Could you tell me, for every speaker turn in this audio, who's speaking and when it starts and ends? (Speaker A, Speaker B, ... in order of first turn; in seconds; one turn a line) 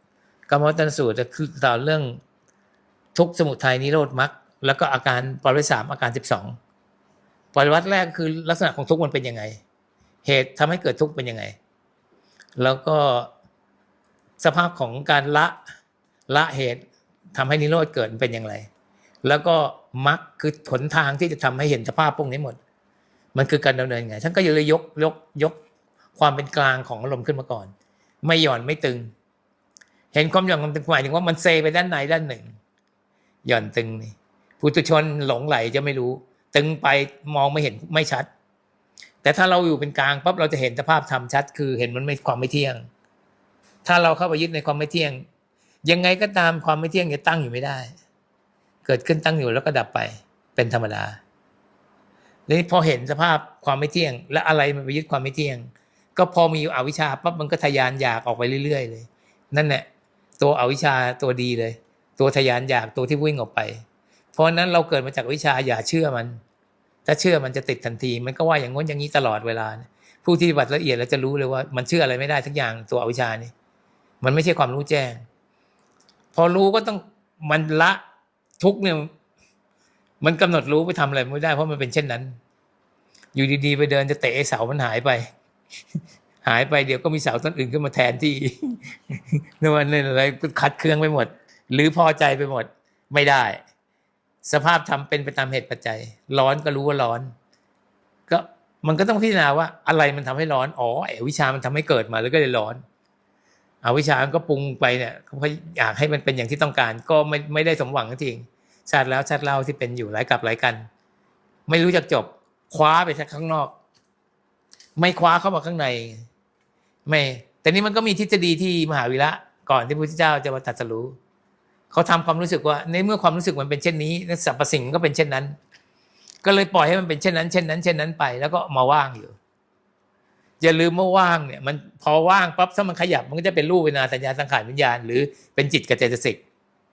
Speaker A: 0.5-2.2
Speaker A: 3.1-6.6
Speaker A: 7.5-9.6
Speaker A: 10.2-11.6
Speaker A: 12.6-13.3
Speaker A: 14.4-15.6
Speaker A: 16.3-16.8
Speaker A: 17.4-18.7
Speaker A: 19.2-22.6
Speaker A: 23.3-25.6
Speaker A: 26.2-27.7
Speaker A: 28.2-29.1
Speaker A: 30.1-32.5
Speaker A: 33.5-38.3
Speaker A: 39.2-42.9
Speaker A: 43.9-45.2
Speaker A: 45.8-47.9
Speaker A: 48.9-51.2
Speaker A: 52.5-59.9
Speaker A: 60.4-63.8
Speaker A: 64.3-66.4
Speaker A: 67.1-73.5
Speaker A: 74.2-75.2
Speaker A: 76.3-78.0
Speaker A: 78.6-79.1
Speaker A: 80.2-82.4
Speaker A: 83.3-85.3
Speaker A: 86.4-93.6
Speaker A: 94.4-97.3
Speaker A: 98.3-102.8
Speaker A: 103.8-110.9
Speaker A: 111.7-113.8
Speaker A: 115.0-116.3
Speaker A: 117.1-121.2
Speaker A: 121.9-125.5
Speaker A: 126.4-129.3
Speaker A: 130.6-136.4